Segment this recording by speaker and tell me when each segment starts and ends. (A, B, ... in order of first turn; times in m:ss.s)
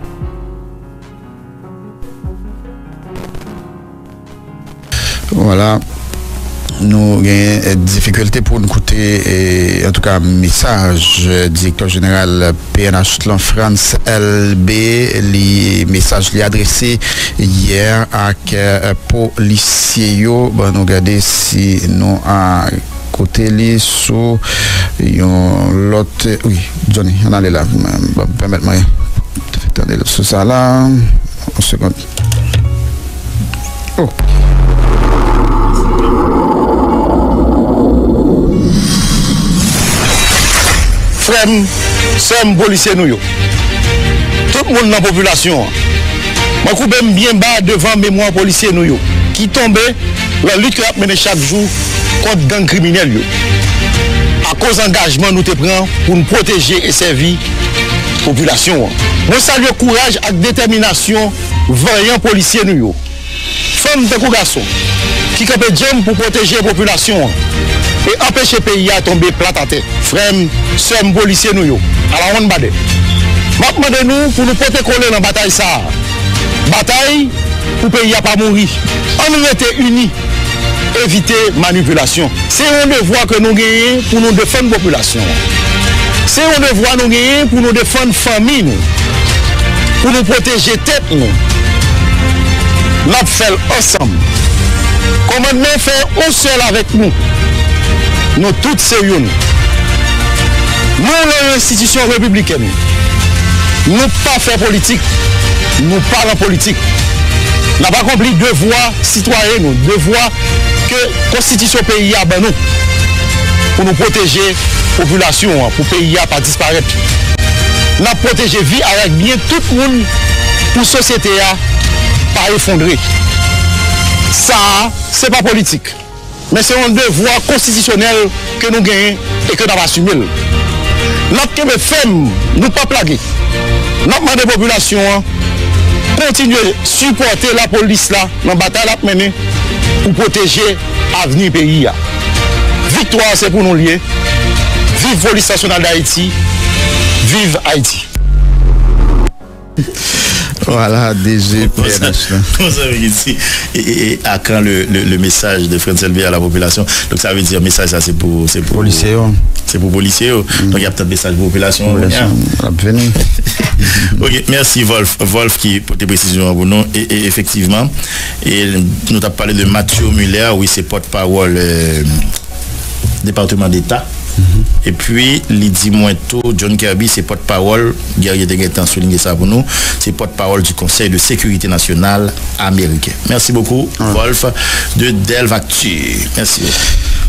0:05.3-0:05.8 A
0:06.8-0:24.4 A
0:25.0-0:28.9 A
0:29.5-0:32.0 A
0:34.0-0:34.3 A
0:41.2-0:43.2 B
0:44.5-0:45.7 B
0:46.6-0:53.3 B
0:54.4-0:57.4 B
0:58.2-1:03.0 B
1:03.7-1:04.7 B
1:05.3-1:07.4 B
1:08.0-1:12.8 B
1:13.6-1:15.9 B
1:16.7-1:20.1 B
1:20.9-1:25.4 B
1:26.3-1:28.8 B
1:30.0-1:31.4 B
1:33.0-1:34.2 B
1:35.3-1:37.2 B
1:38.4-1:39.4 B
1:41.0-1:42.8 B
1:43.9-1:45.0 B
1:45.8-1:46.8 B
1:47.8-1:50.3 B
1:50.8-1:52.6 B
1:53.8-1:57.0 B
1:58.0-2:00.1 B
2:00.7-2:01.6 B
2:02.3-2:03.0 B
2:04.3-2:06.0 B
2:06.5-2:10.3 B
2:11.3-2:13.2 B
2:14.0-2:15.2 B
2:16.1-2:19.4 B
2:20.0-2:22.0 B
2:22.9-2:24.0 B
2:24.9-2:26.3 B
2:27.2-2:28.1 B
2:30.4-2:32.5 A
2:31.6-2:39.1 C
2:38.7-2:39.4 A
2:39.7-2:42.4 C
2:41.8-2:43.2 A
2:43.6-2:52.3 C
2:43.8-2:44.2 A
2:53.2-2:54.1 C
2:54.8-3:06.8 C